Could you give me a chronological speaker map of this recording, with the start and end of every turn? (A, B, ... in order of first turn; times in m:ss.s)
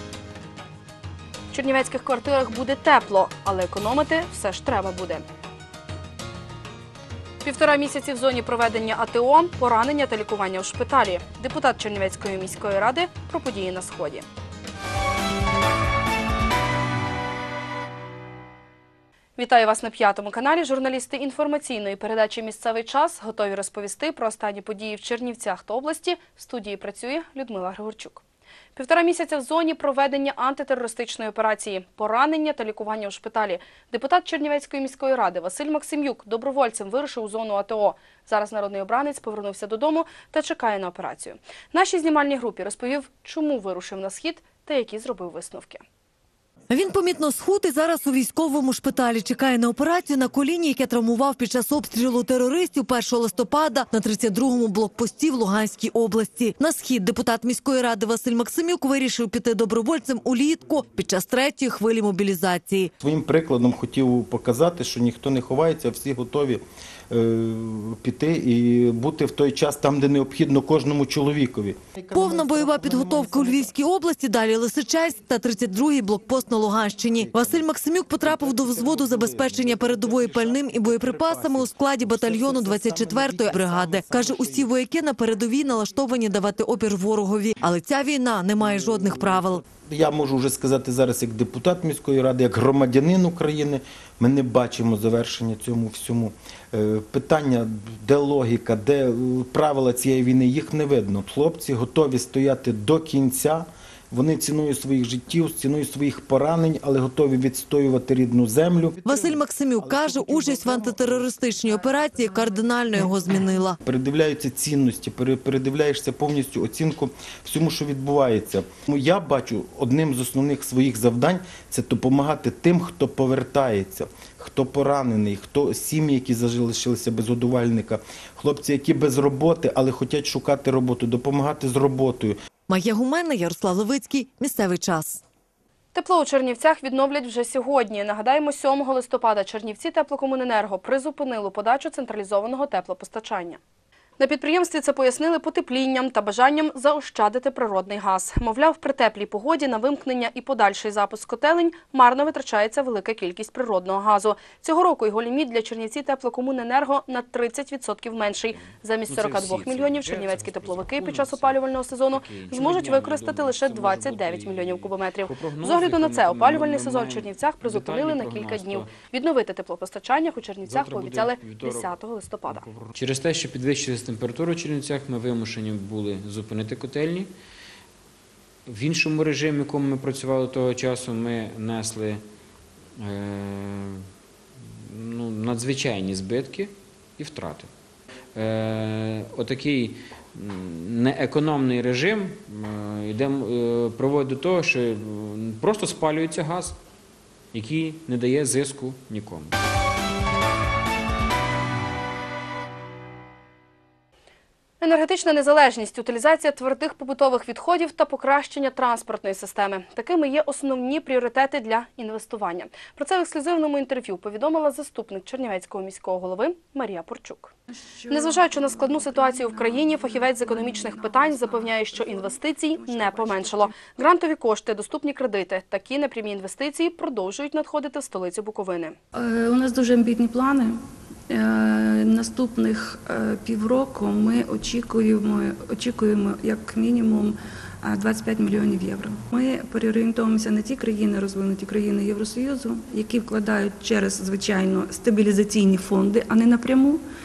0:01.5-0:05.2 A
0:07.4-0:14.2 A
0:19.4-0:28.2 A
0:28.7-0:45.8 A
0:46.7-1:02.9 B
1:03.0-1:13.7 C
1:12.1-1:29.6 B
1:17.2-1:17.6 C
1:18.2-1:24.7 C
1:28.6-1:51.6 C
1:49.0-1:53.8 B
1:53.8-2:12.4 C
2:12.7-2:15.2 B
2:15.9-2:23.6 A
2:24.2-2:52.6 A
2:39.0-2:48.9 D
2:50.6-2:57.3 D
2:58.6-3:02.2 D
3:03.0-3:04.0 D
3:04.8-3:07.7 D
3:08.3-3:16.8 D
3:17.5-3:19.6 D
3:24.8-3:37.5 A
3:37.8-3:43.8 E
3:38.1-3:48.9 A
3:49.1-4:07.0 E